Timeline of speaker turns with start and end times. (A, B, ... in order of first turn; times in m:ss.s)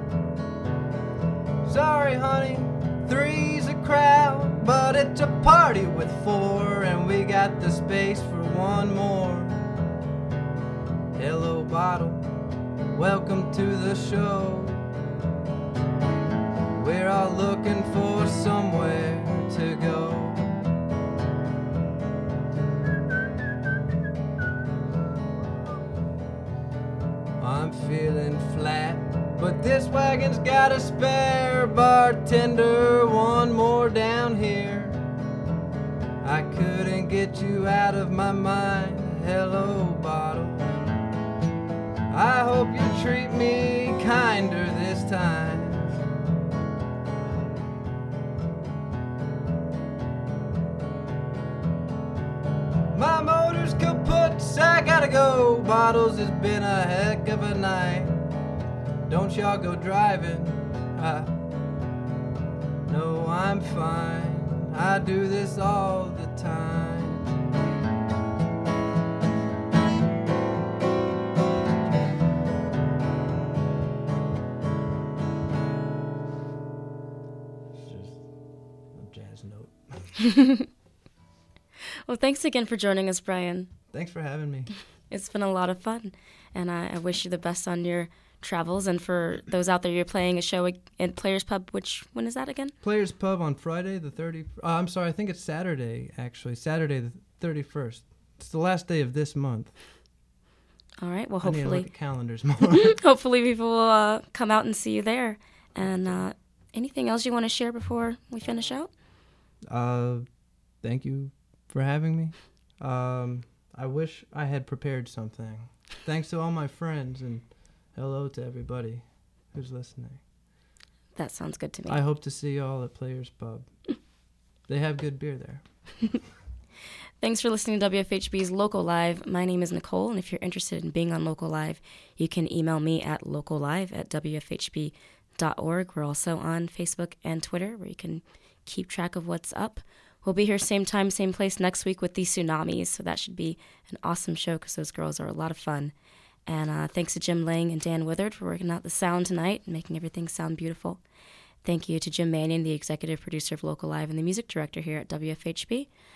0:01.6-0:09.6 A
0:11.1-0:12.2 A
0:12.9-0:14.9 A
0:16.7-0:20.5 A
0:27.4-0:35.0 A
0:36.2-0:40.8 A
0:42.1-0:46.0 A
0:52.9-0:58.2 A
0:59.1-1:01.3 A
1:02.8-1:07.3 A
1:17.8-1:18.3 A
1:18.9-1:20.2 A
1:20.2-1:20.7 B
1:22.0-1:23.7 B
1:23.9-1:24.7 A
1:25.1-1:32.7 B
1:32.8-1:39.7 A
1:41.0-1:41.9 B
1:41.4-1:43.0 A
1:42.9-1:48.9 B
1:45.8-1:46.2 A
1:49.7-2:00.2 A
2:01.1-2:02.0 B
2:01.9-2:04.1 A
2:04.6-2:06.2 A
2:07.2-2:25.9 B
2:26.4-2:31.0 B
2:31.6-2:35.9 B